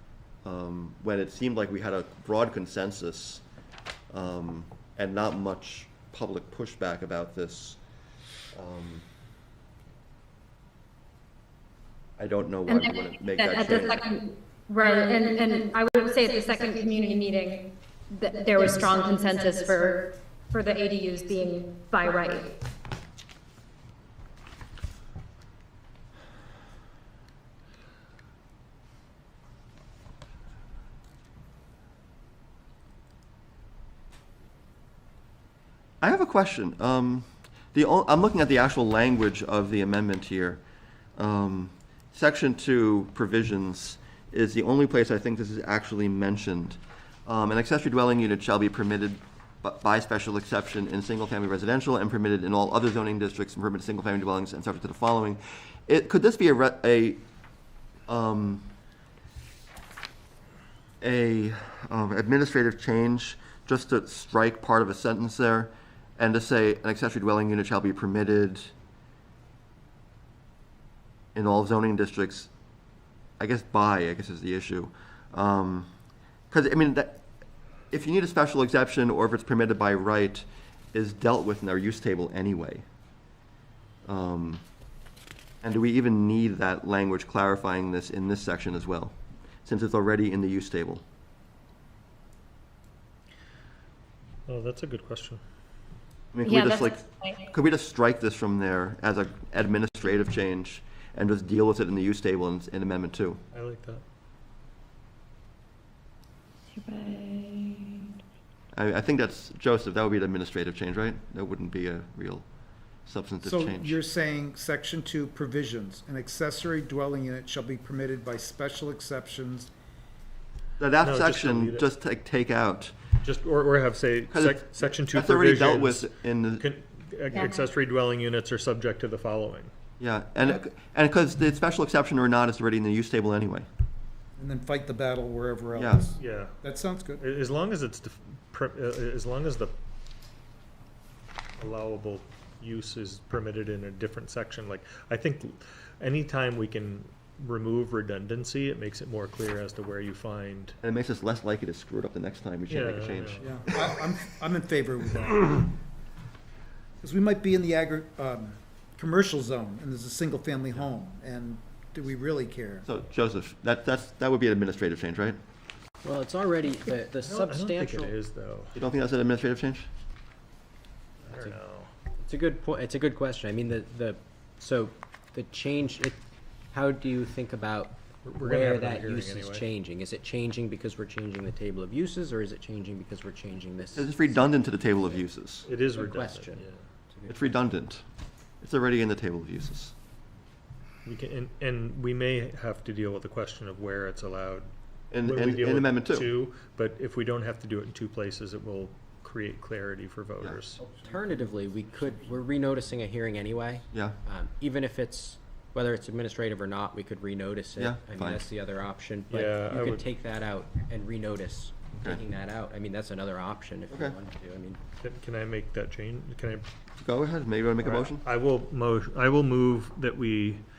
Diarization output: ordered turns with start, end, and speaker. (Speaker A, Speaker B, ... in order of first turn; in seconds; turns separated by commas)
Speaker A: 0.4-3.4, Speaker A: 4.1-7.8, Speaker A: 8.5-9.0, Speaker A: 12.2-14.1, Speaker B: 12.7-22.6, Speaker A: 36.0-40.6, Speaker A: 41.2-57.2, Speaker A: 58.1-58.7, Speaker A: 61.0-68.7, Speaker A: 71.3-72.5, Speaker A: 73.4-75.9, Speaker A: 76.5-77.2, Speaker A: 77.9-82.8, Speaker A: 84.0-84.6, Speaker A: 85.6-91.0, Speaker C: 94.5-95.4, Speaker A: 96.3-103.4, Speaker B: 96.4-97.3, Speaker C: 103.5-104.0, Speaker B: 106.8-107.7, Speaker A: 108.7-112.5, Speaker A: 113.0-114.0, Speaker D: 113.4-119.7, Speaker A: 120.8-122.9, Speaker C: 121.0-121.8, Speaker C: 123.2-129.7, Speaker A: 124.3-126.6, Speaker A: 130.0-133.7, Speaker D: 134.4-137.2, Speaker A: 135.8-136.0, Speaker C: 136.2-136.5, Speaker C: 137.2-139.7, Speaker C: 141.6-150.8, Speaker A: 150.8-153.7, Speaker C: 152.7-153.7, Speaker D: 153.4-155.7, Speaker D: 157.0-162.8, Speaker A: 162.8-165.4, Speaker E: 166.0-168.1, Speaker C: 167.2-168.7, Speaker A: 168.7-169.9, Speaker C: 171.3-171.9, Speaker E: 172.2-176.2, Speaker E: 176.7-184.6, Speaker C: 178.2-179.7, Speaker A: 183.9-185.7, Speaker C: 185.6-186.7, Speaker E: 185.9-187.6, Speaker A: 187.3-188.0, Speaker A: 188.6-189.9, Speaker C: 191.0-194.7, Speaker A: 195.1-196.3, Speaker C: 195.2-200.9, Speaker E: 200.9-214.8, Speaker A: 203.9-204.2, Speaker A: 207.8-208.5, Speaker C: 209.3-210.1, Speaker A: 213.9-214.2, Speaker C: 215.0-216.6, Speaker A: 217.0-218.2, Speaker C: 217.8-220.6